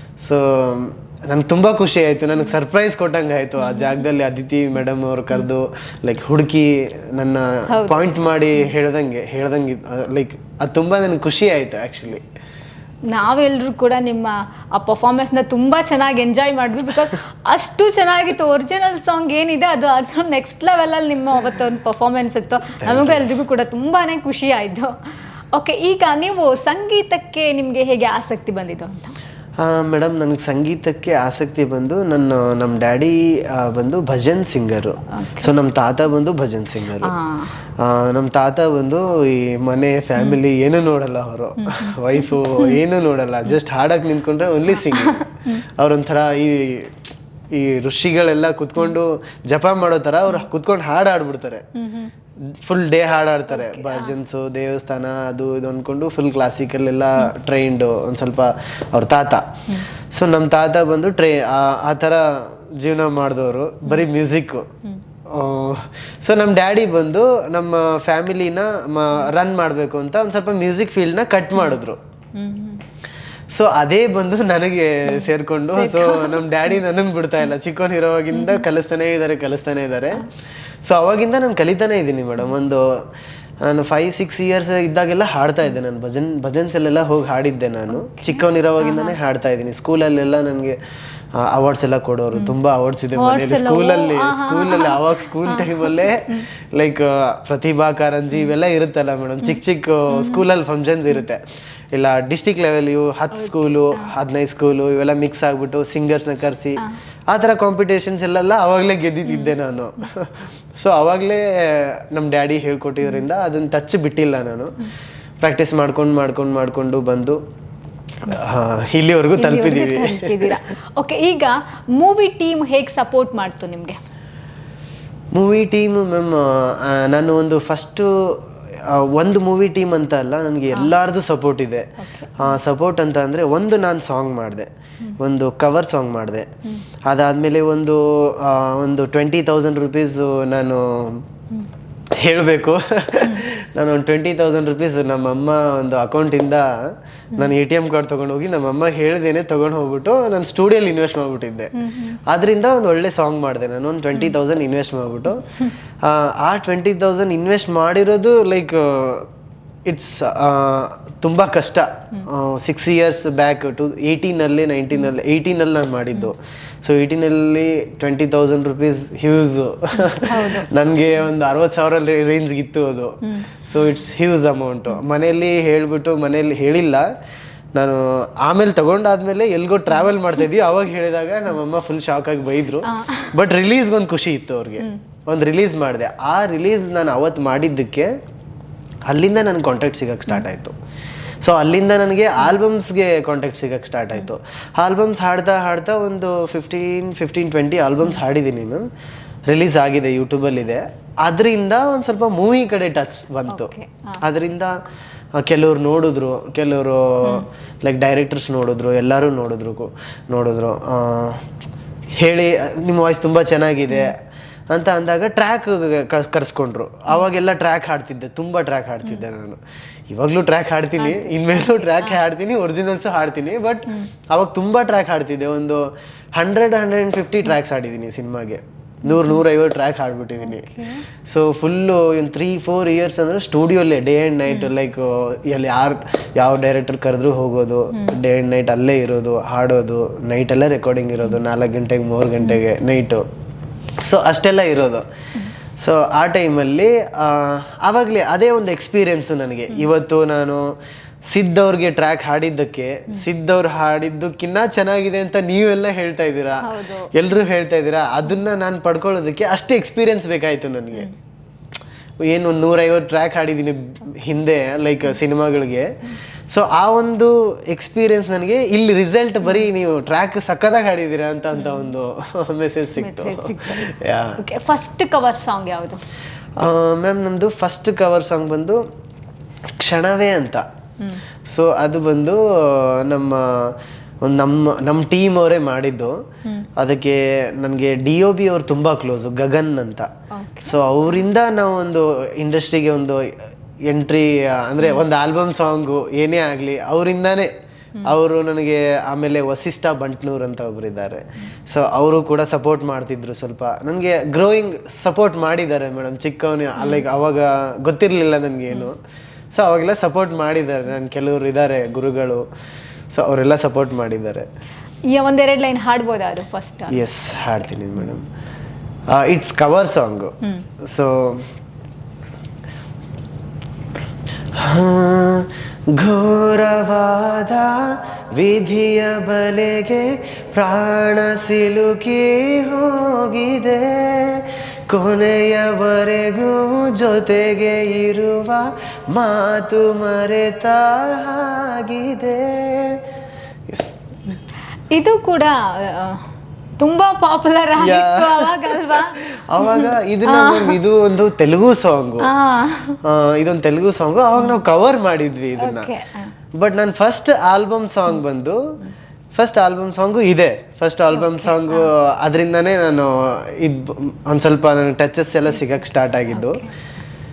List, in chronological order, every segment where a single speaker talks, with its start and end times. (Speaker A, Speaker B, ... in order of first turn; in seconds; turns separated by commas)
Speaker A: 0.2-12.2, Speaker B: 3.6-4.0, Speaker B: 7.7-8.0, Speaker B: 13.1-24.9, Speaker A: 22.8-23.2, Speaker B: 25.5-29.1, Speaker A: 29.6-37.1, Speaker B: 35.1-35.5, Speaker B: 37.0-37.5, Speaker A: 37.8-51.7, Speaker B: 41.6-42.7, Speaker B: 44.7-45.6, Speaker B: 51.8-52.1, Speaker A: 52.5-64.7, Speaker B: 53.5-54.1, Speaker A: 65.3-72.0, Speaker B: 72.3-72.8, Speaker A: 73.5-80.3, Speaker B: 75.1-76.4, Speaker B: 78.3-78.6, Speaker A: 80.8-83.0, Speaker A: 83.6-90.8, Speaker B: 87.9-89.2, Speaker A: 91.3-101.4, Speaker B: 93.1-96.5, Speaker B: 99.4-100.4, Speaker A: 101.9-114.9, Speaker B: 103.4-104.1, Speaker B: 109.2-109.5, Speaker A: 115.4-117.4, Speaker A: 118.2-120.6, Speaker B: 119.4-124.0, Speaker A: 125.3-134.7, Speaker B: 132.0-132.6, Speaker A: 135.2-136.5, Speaker A: 137.1-141.2, Speaker A: 142.2-155.4, Speaker B: 151.7-152.2, Speaker B: 155.4-155.7, Speaker A: 156.0-159.3, Speaker A: 159.8-177.1, Speaker B: 169.9-170.7, Speaker B: 173.2-173.5, Speaker A: 177.7-188.1, Speaker B: 182.8-183.3, Speaker A: 189.1-190.8, Speaker A: 191.4-198.8, Speaker A: 199.5-204.7, Speaker B: 203.5-204.2, Speaker A: 205.3-211.5, Speaker A: 212.2-214.2, Speaker A: 214.7-219.6, Speaker A: 220.1-230.7, Speaker B: 221.0-222.2, Speaker B: 229.1-229.4, Speaker B: 230.4-231.0, Speaker A: 231.2-243.2, Speaker B: 234.5-234.7, Speaker A: 244.0-245.1, Speaker A: 245.8-250.6, Speaker A: 251.3-261.1, Speaker B: 256.6-257.1, Speaker A: 262.2-274.4, Speaker B: 271.5-271.9, Speaker B: 273.0-276.0, Speaker A: 276.6-278.8, Speaker A: 279.8-280.6, Speaker A: 281.4-286.2, Speaker A: 286.8-290.1, Speaker B: 290.3-290.7, Speaker A: 290.6-293.3, Speaker A: 293.9-297.5, Speaker A: 298.0-309.0, Speaker B: 306.8-307.0, Speaker A: 309.5-312.4, Speaker A: 313.1-314.5, Speaker B: 315.1-317.0, Speaker A: 316.9-318.2, Speaker A: 319.1-321.5, Speaker A: 324.6-343.0, Speaker A: 343.7-344.0, Speaker B: 344.9-346.2, Speaker B: 346.8-350.8, Speaker A: 347.8-352.3, Speaker B: 352.2-353.0, Speaker A: 353.0-355.9, Speaker B: 354.4-354.6, Speaker B: 355.6-356.3, Speaker A: 356.5-358.6, Speaker A: 359.3-366.6, Speaker B: 361.1-361.9, Speaker B: 366.3-366.7